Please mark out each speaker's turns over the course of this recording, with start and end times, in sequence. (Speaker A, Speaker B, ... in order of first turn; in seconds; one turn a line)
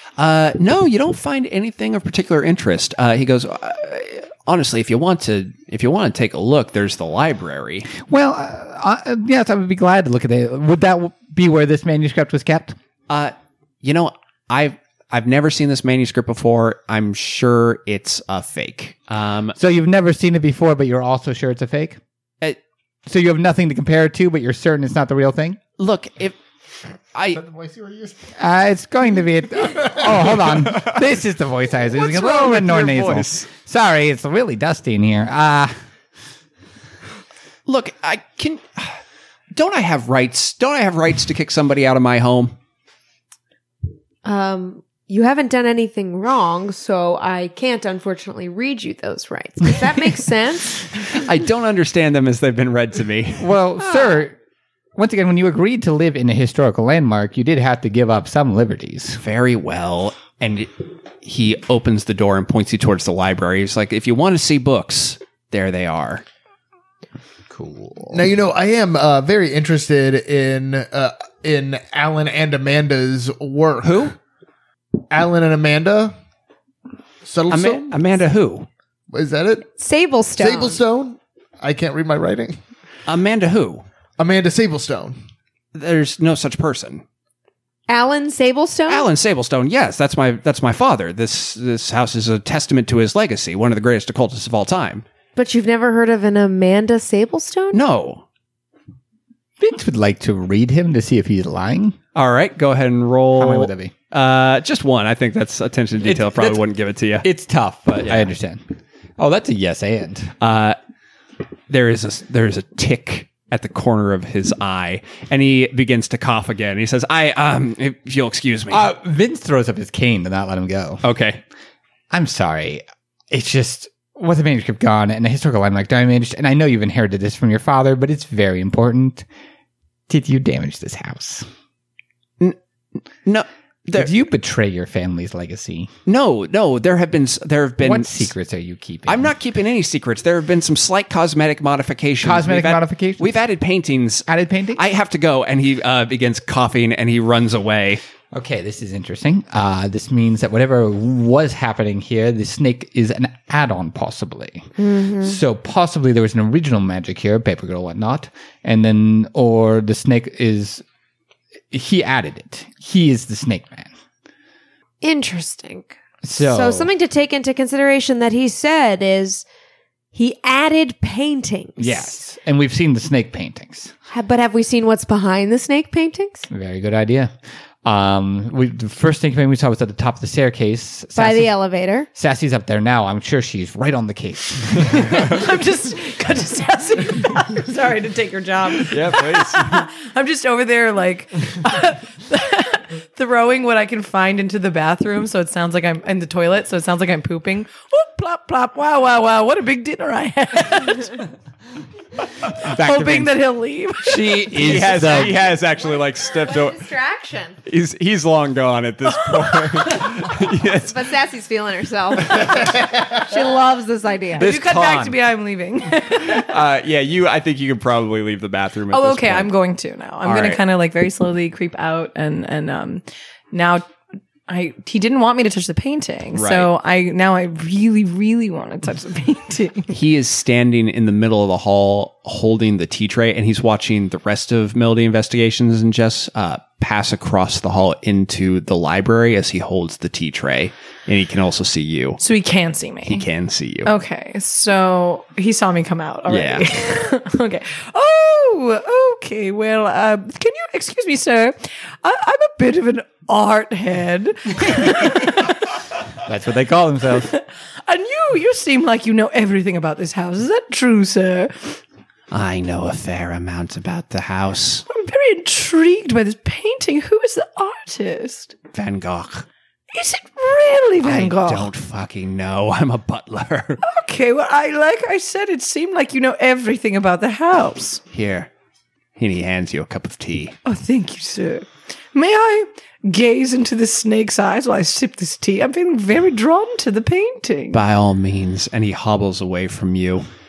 Speaker A: 0.2-7.9
Speaker B: 7.9-12.8
Speaker A: 13.1-19.6
Speaker B: 19.6-22.0
Speaker B: 23.1-25.6
Speaker A: 25.8-26.4
Speaker A: 27.1-27.4
Speaker C: 27.3-28.3
Speaker B: 28.4-35.7
Speaker A: 30.7-31.0
Speaker A: 31.9-33.5
Speaker A: 37.7-39.0
Speaker A: 39.5-42.6
Speaker D: 44.2-51.0
Speaker A: 51.1-53.6
Speaker B: 53.4-54.4
Speaker B: 55.0-59.2
Speaker A: 59.2-66.2
Speaker B: 67.5-68.3
Speaker C: 68.1-74.1
Speaker A: 73.8-74.2
Speaker C: 75.1-76.1
Speaker C: 77.2-78.0
Speaker A: 77.5-78.7
Speaker C: 79.1-79.7
Speaker D: 79.8-80.8
Speaker C: 80.4-82.6
Speaker A: 83.1-83.8
Speaker C: 84.2-85.2
Speaker A: 85.7-87.0
Speaker D: 87.9-89.1
Speaker A: 88.9-95.0
Speaker D: 95.4-97.8
Speaker A: 97.7-98.2
Speaker B: 99.6-102.0
Speaker A: 102.2-107.3
Speaker B: 103.4-103.9
Speaker B: 106.0-106.7
Speaker B: 107.2-108.6
Speaker A: 108.0-108.3
Speaker B: 109.2-110.3
Speaker A: 110.4-110.8
Speaker A: 111.7-118.9
Speaker B: 118.7-121.0
Speaker A: 121.0-121.4
Speaker B: 122.1-129.3
Speaker B: 130.1-131.5
Speaker A: 133.2-134.1
Speaker B: 133.9-135.9
Speaker A: 136.1-138.3
Speaker B: 137.8-139.3
Speaker A: 139.1-148.0
Speaker B: 142.2-143.4
Speaker B: 144.3-144.8
Speaker B: 148.3-160.8
Speaker D: 154.8-155.4
Speaker B: 161.7-163.9
Speaker D: 165.0-169.4
Speaker B: 166.2-166.9
Speaker D: 170.1-172.1
Speaker B: 171.8-173.9
Speaker D: 174.1-176.5
Speaker B: 176.5-181.5
Speaker D: 181.2-182.1
Speaker B: 182.1-185.2
Speaker E: 184.9-201.3
Speaker A: 188.9-189.9
Speaker B: 202.6-203.4
Speaker E: 202.6-205.2
Speaker B: 204.0-205.4
Speaker A: 204.5-206.8
Speaker D: 205.8-207.6
Speaker A: 207.7-211.0
Speaker D: 210.8-214.5
Speaker E: 214.3-216.5
Speaker B: 214.4-215.2
Speaker A: 216.2-219.6
Speaker E: 218.9-223.9
Speaker A: 220.2-220.6
Speaker E: 224.5-229.9
Speaker A: 226.3-226.7
Speaker A: 229.9-242.2
Speaker E: 242.2-243.3
Speaker A: 243.1-243.9
Speaker E: 243.9-255.7
Speaker A: 246.3-246.7
Speaker B: 256.2-257.3
Speaker E: 257.2-261.8
Speaker A: 262.3-264.9
Speaker E: 264.9-268.6
Speaker A: 268.7-269.5
Speaker E: 269.9-271.7
Speaker A: 271.0-273.8
Speaker E: 273.8-278.0
Speaker A: 278.1-278.5
Speaker A: 279.2-280.6
Speaker E: 280.6-287.8
Speaker A: 287.7-290.2